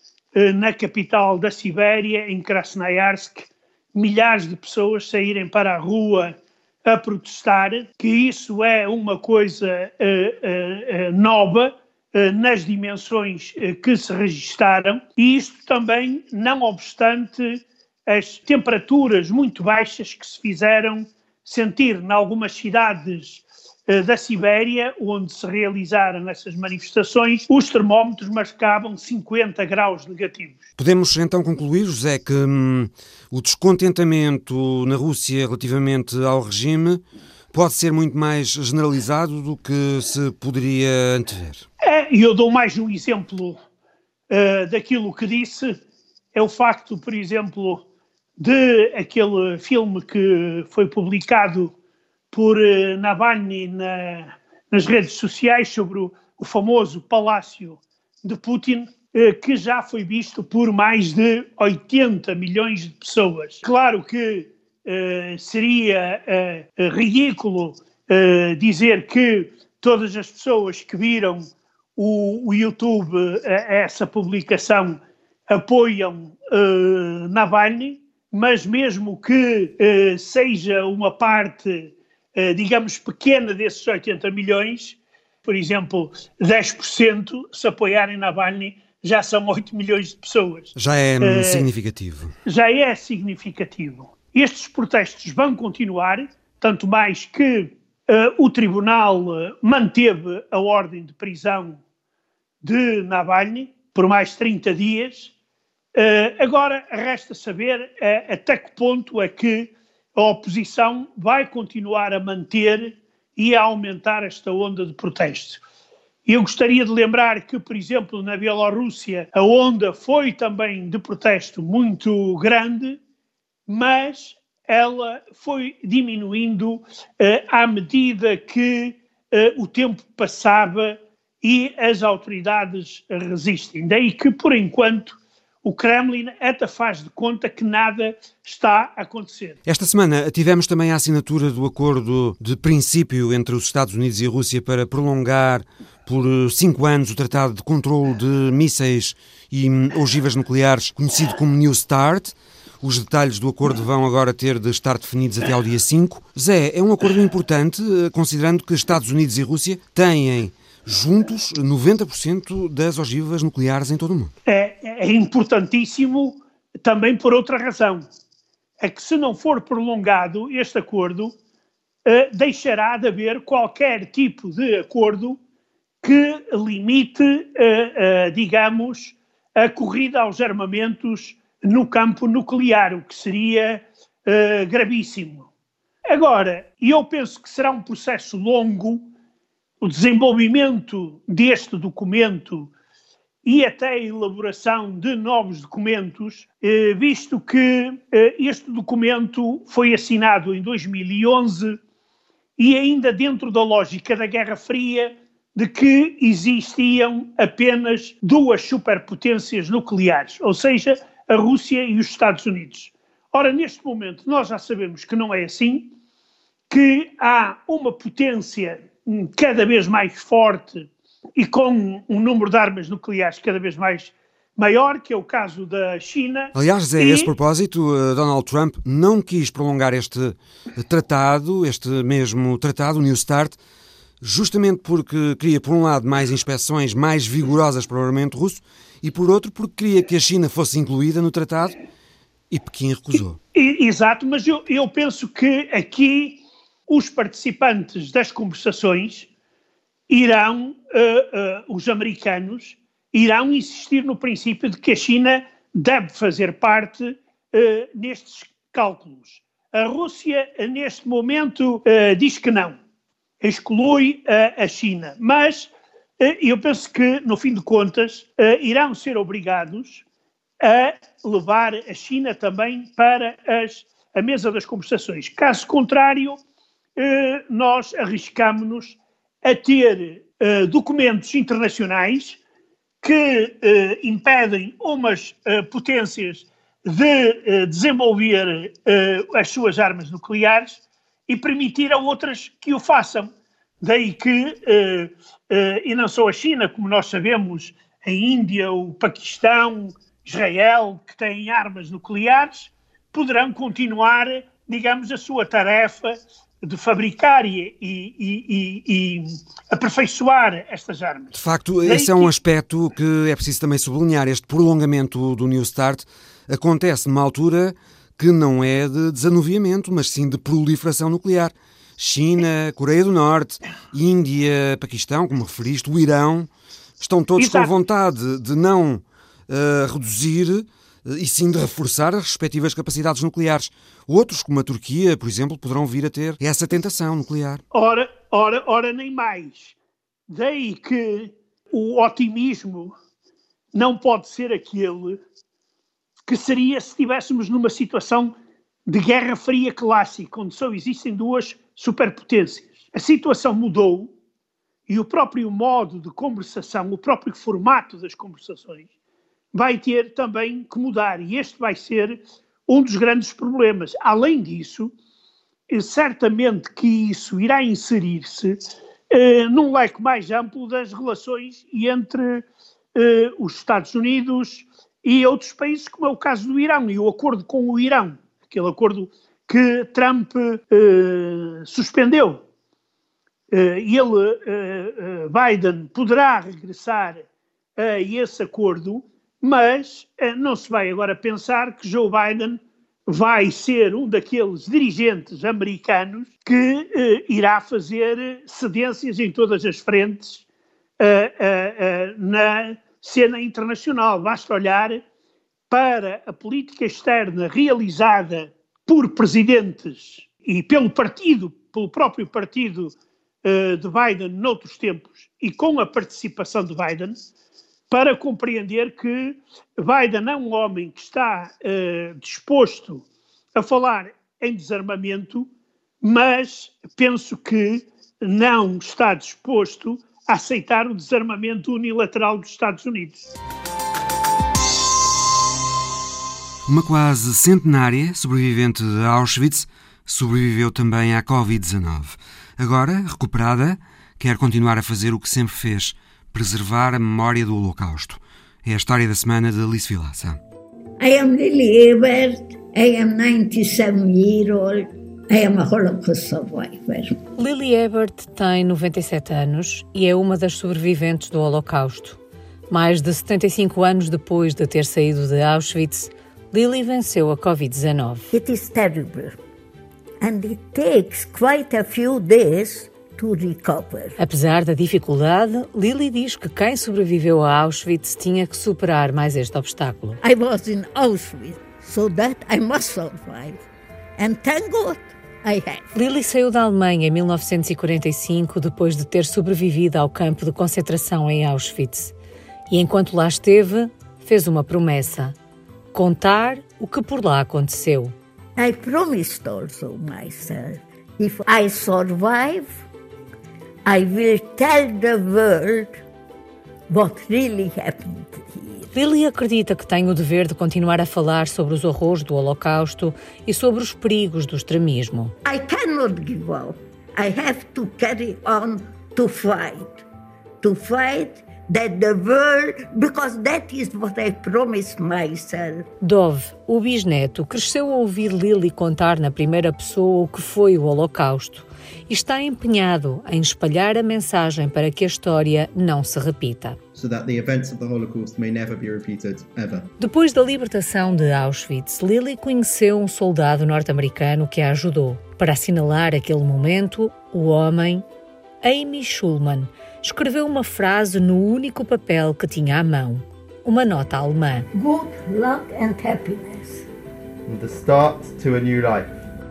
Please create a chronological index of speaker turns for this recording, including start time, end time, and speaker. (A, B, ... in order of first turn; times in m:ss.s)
0:00.3-0:30.6 A
0:30.8-0:41.6 B
0:41.8-0:43.6 A
0:44.3-0:45.8 A
0:46.3-0:47.8 A
0:48.4-0:51.7 A
0:52.3-1:31.7 A
1:30.7-1:32.3 B
1:32.5-1:41.8 A
1:42.6-1:45.3 A
1:46.0-1:55.6 A
1:56.3-2:03.0 A
2:03.7-2:19.6 A
2:19.6-2:44.3 B
2:44.5-2:48.1 A
2:48.8-2:51.3 A
2:52.0-2:55.4 A
2:56.0-3:05.5 A
3:06.1-3:09.1 A
3:09.8-3:12.7 A
3:13.4-3:21.8 A
3:22.6-3:35.9 A
3:36.7-3:47.3 A
3:46.6-3:53.6 B
3:54.2-4:01.7 B
4:02.5-4:03.4 B
4:03.6-4:09.3 A
4:10.1-4:22.8 A
4:23.4-4:30.0 A
4:30.6-4:36.4 A
4:37.0-4:42.4 A
4:43.0-5:11.3 A
5:11.3-5:26.5 B
5:11.9-5:12.3 A
5:27.0-5:37.6 B
5:27.4-5:27.7 A
5:37.7-5:39.8 A
5:40.3-5:42.9 A
5:43.7-5:45.2 A
5:46.3-5:48.4 A
5:48.9-5:54.1 A
5:54.9-5:58.9 A
5:59.5-6:04.9 A
6:05.7-6:22.4 A
6:23.5-6:27.2 A
6:27.8-6:40.4 A
6:41.0-6:45.0 A
6:45.7-6:57.2 A
6:57.9-7:05.5 A
7:06.0-7:13.2 A
7:16.7-7:30.4 B
7:31.0-7:37.2 C
7:37.4-7:42.2 D
7:42.7-7:48.3 D
7:48.3-7:49.4 C
7:50.2-7:54.2 C
7:54.2-8:00.2 D
8:00.2-8:03.6 C
8:04.2-8:05.9 C
8:05.9-8:12.1 D
8:12.7-8:15.3 D
8:15.9-8:18.1 D
8:18.6-8:22.8 C
8:23.9-8:26.0 C
8:26.9-8:28.9 C
8:28.9-8:35.3 D
8:35.4-8:40.0 C
8:40.6-8:45.9 C
8:46.0-8:56.8 D
8:56.9-8:59.9 E
9:00.0-9:08.0 D
9:08.6-9:14.7 D
9:14.7-9:16.9 C
9:17.5-9:19.1 E